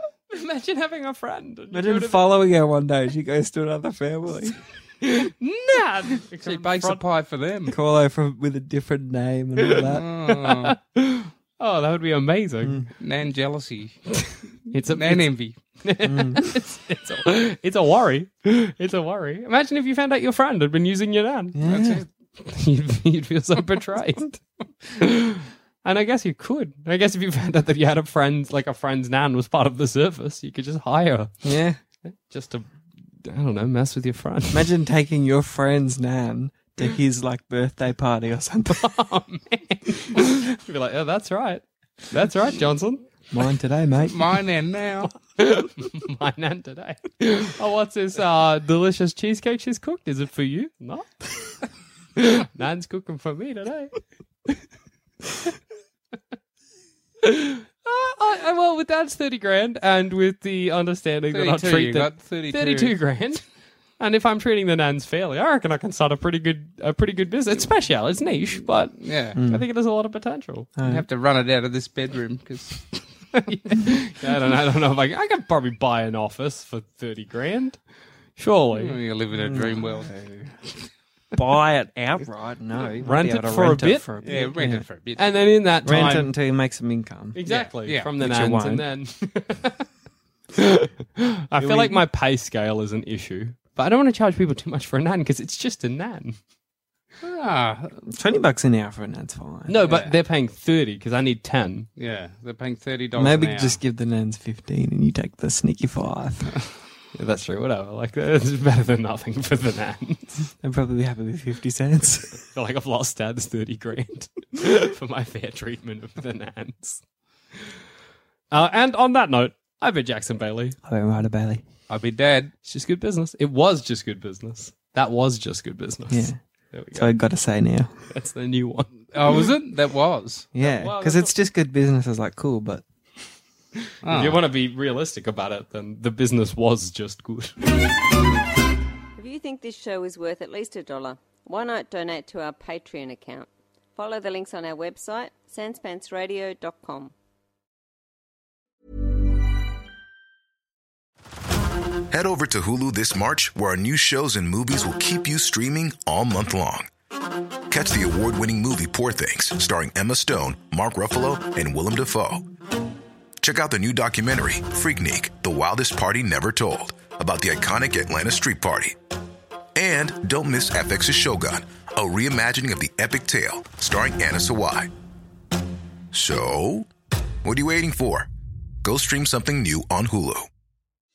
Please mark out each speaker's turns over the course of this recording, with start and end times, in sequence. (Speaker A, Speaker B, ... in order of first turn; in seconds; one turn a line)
Speaker A: 0.3-2.3
Speaker B: 1.7-4.6
Speaker A: 5.0-7.0
Speaker C: 6.4-7.8
Speaker B: 7.7-10.1
Speaker C: 9.8-10.8
Speaker A: 10.4-12.9
Speaker C: 13.0-14.0
Speaker A: 14.2-21.6
Speaker C: 14.9-15.6
Speaker B: 16.0-16.6
Speaker B: 21.5-22.1
Speaker C: 21.6-22.1
Speaker A: 22.4-24.4
Speaker A: 25.0-31.3
Speaker B: 31.4-31.8
Speaker A: 32.0-32.7
Speaker A: 33.2-34.7
Speaker B: 34.5-38.9
Speaker A: 38.7-43.1
Speaker B: 43.3-44.2
Speaker C: 44.1-45.1
Speaker A: 45.4-51.6
Speaker A: 52.2-54.0
Speaker A: 57.2-63.4
Speaker C: 61.3-63.0
Speaker A: 64.0-70.7
Speaker C: 69.0-69.4
Speaker B: 69.4-69.6
Speaker B: 70.8-71.1
Speaker C: 70.8-73.1
Speaker A: 73.3-77.8
Speaker A: 78.4-79.0
Speaker C: 78.7-80.2
Speaker B: 79.4-80.5
Speaker B: 81.3-84.8
Speaker A: 83.0-84.1
Speaker C: 84.2-85.4
Speaker A: 85.2-86.3
Speaker B: 85.8-87.4
Speaker A: 87.3-89.9
Speaker C: 87.5-88.1
Speaker B: 88.2-88.8
Speaker A: 90.5-96.4
Speaker B: 91.6-92.0
Speaker C: 97.2-98.0
Speaker B: 98.1-99.8
Speaker A: 99.7-101.9
Speaker C: 99.8-100.1
Speaker C: 102.0-103.8
Speaker B: 103.2-106.5
Speaker A: 107.2-110.4
Speaker B: 110.6-112.4
Speaker A: 112.5-117.0
Speaker A: 118.5-120.8
Speaker B: 120.8-121.6
Speaker C: 121.9-122.5
Speaker A: 122.7-127.1
Speaker B: 126.1-126.4
Speaker B: 126.9-127.9
Speaker A: 128.1-129.1
Speaker C: 129.1-130.5
Speaker B: 130.5-132.8
Speaker A: 130.6-131.3
Speaker C: 134.0-134.4
Speaker A: 134.1-137.6
Speaker D: 139.2-147.1
Speaker E: 152.1-156.9
Speaker E: 157.7-162.4
Speaker E: 163.4-169.0
Speaker E: 169.8-174.9
Speaker E: 176.1-176.9
Speaker E: 177.4-178.3
Speaker E: 178.8-180.5